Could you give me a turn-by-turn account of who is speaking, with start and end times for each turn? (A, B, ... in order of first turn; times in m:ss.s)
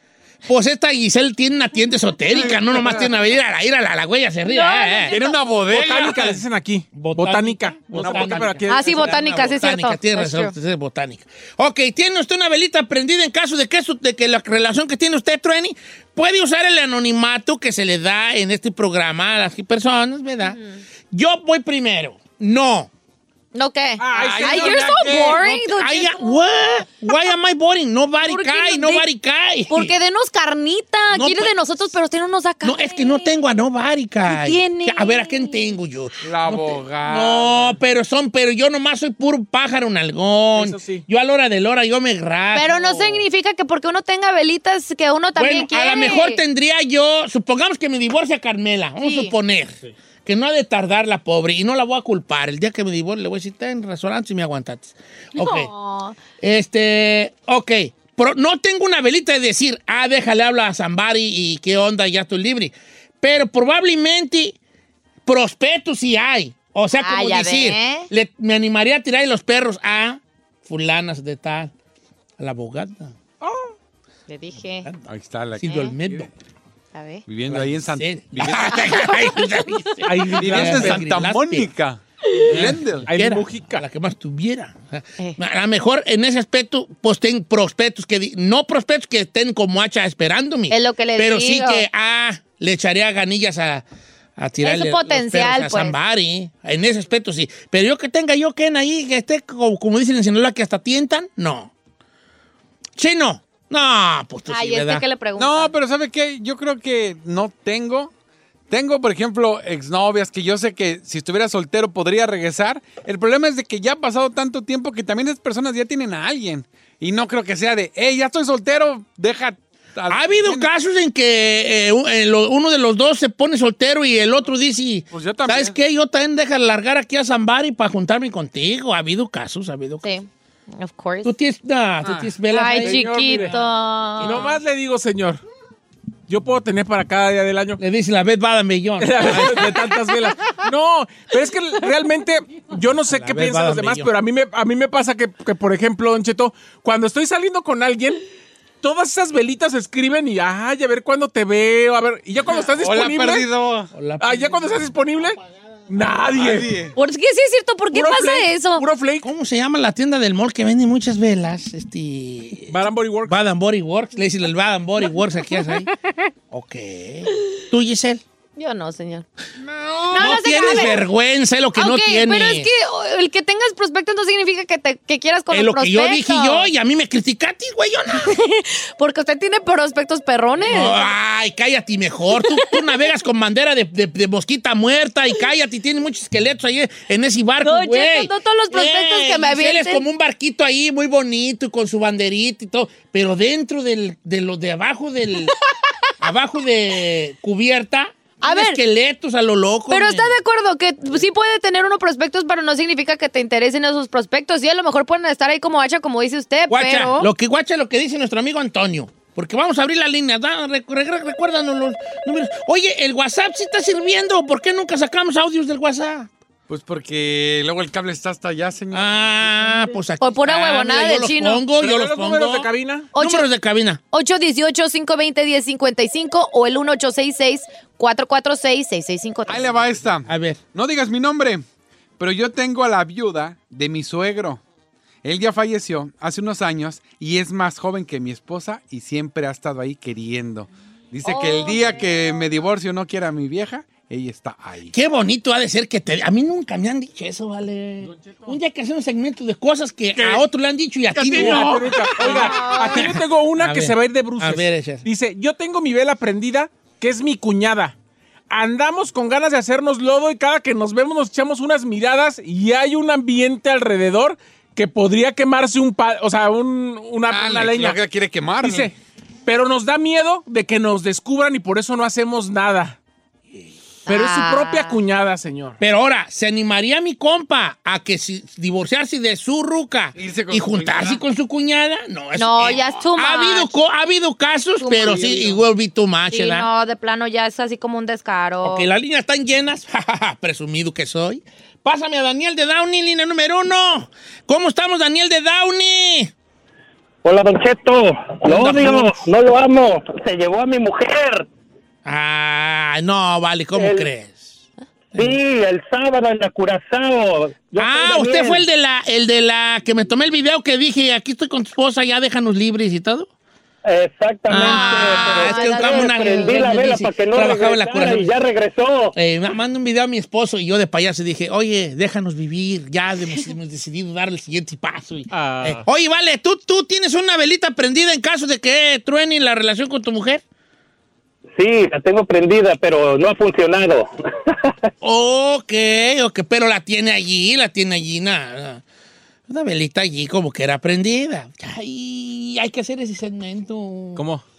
0:00.4-0:05.2 A
0:02.3-0:03.1 B
0:04.5-0:05.3 C
0:05.1-0:06.4 B
0:05.7-0:09.2 D
0:06.9-0:20.6 A
0:07.9-0:08.6 B
0:08.7-0:10.5 C
0:20.4-0:20.8 C
0:21.1-0:22.9 A
0:23.5-0:26.4 C
0:24.0-0:25.2 D
0:24.1-0:25.4 B
0:25.1-0:29.9 A
0:28.2-0:29.0 C
0:29.7-0:33.3 C
0:31.1-0:31.5 A
0:32.6-0:43.3 A
0:34.2-0:35.6 C
0:36.2-0:37.8 B
0:40.5-0:41.0 D
0:42.5-0:46.4 C
0:45.4-0:55.7 A
0:49.0-0:49.3 C
0:55.4-0:56.2 C
0:56.4-1:04.6 A
1:05.2-1:11.7 A
1:07.0-1:08.1 C
1:12.4-1:13.2 A
1:14.3-1:14.9 C
1:15.0-1:16.3 B
1:15.6-1:16.3 A
1:15.6-1:15.9 C
1:16.9-1:17.2 C
1:17.3-1:19.1 B
1:17.5-1:21.7 A
1:20.0-1:21.0 D
1:20.4-1:23.1 B
1:22.4-1:33.8 A
1:23.1-1:23.8 D
1:30.7-1:31.8 C
1:34.4-1:41.7 A
1:34.6-1:36.0 C
1:43.0-1:45.0 A
1:44.5-1:45.7 C
1:45.4-1:48.1 B
1:48.7-2:00.7 B
2:00.1-2:10.1 A
2:05.1-2:05.7 B
2:10.0-2:11.3 C
2:11.2-2:13.5 A
2:12.0-2:12.3 B
2:12.5-2:14.5 C
2:12.8-2:13.6 D
2:14.2-2:15.4 D
2:14.2-2:14.4 A
2:16.3-2:17.8 D
2:17.8-2:19.9 A
2:19.0-2:28.2 D
2:23.1-2:24.1 A
2:28.8-2:33.5 D
2:32.7-2:33.9 B
2:33.9-2:34.9 A
2:34.2-2:36.7 D
2:36.3-2:36.9 B
2:36.9-2:38.8 C
2:37.9-2:39.3 D
2:39.2-2:45.9 A
2:42.7-2:43.3 D
2:46.5-2:48.2 A
2:48.6-2:49.2 C
2:50.1-2:52.7 A
2:50.1-2:51.0 C
2:51.8-2:56.7 C
2:55.5-2:58.4 A
2:58.2-3:01.0 C
3:00.6-3:15.6 A
3:07.6-3:10.0 C
3:16.2-3:20.3 A
3:18.4-3:18.8 C
3:19.9-3:27.3 C
3:26.7-3:36.3 A
3:36.7-3:39.4 B
3:38.9-3:44.0 A
3:40.2-3:41.6 C
3:41.8-3:43.1 D
3:43.1-3:43.4 C
3:44.1-3:49.7 C
3:49.5-3:51.6 B
3:50.2-3:50.6 A
3:52.2-3:54.6 B
3:55.2-4:04.9 B
4:01.2-4:02.1 C
4:04.9-4:15.0 A
4:08.0-4:08.5 D
4:10.1-4:10.4 B
4:11.1-4:12.6 B
4:11.3-4:17.9 D
4:12.2-4:13.0 C
4:18.5-4:28.0 D
4:27.3-4:28.9 B
4:28.6-4:28.9 D
4:29.4-4:33.0 D
4:34.0-4:35.0 C
4:34.1-4:35.8 D
4:35.8-4:46.7 A
4:40.1-4:41.2 B
4:42.4-4:43.7 C
4:44.8-4:45.5 C
4:46.3-4:48.9 C
4:48.6-4:56.3 A
4:57.2-5:01.4 E
4:58.4-4:59.2 A
5:02.0-5:04.6 A
5:03.8-5:04.0 E
5:05.2-5:08.6 E
5:07.8-5:13.3 A
5:13.8-5:19.1 E
5:14.5-5:18.3 A
5:14.5-5:16.6 C
5:19.1-5:30.4 A
5:25.3-5:25.8 D
5:31.5-5:34.0 E
5:35.0-5:38.8 A
5:39.5-5:44.2 A
5:44.2-5:44.4 D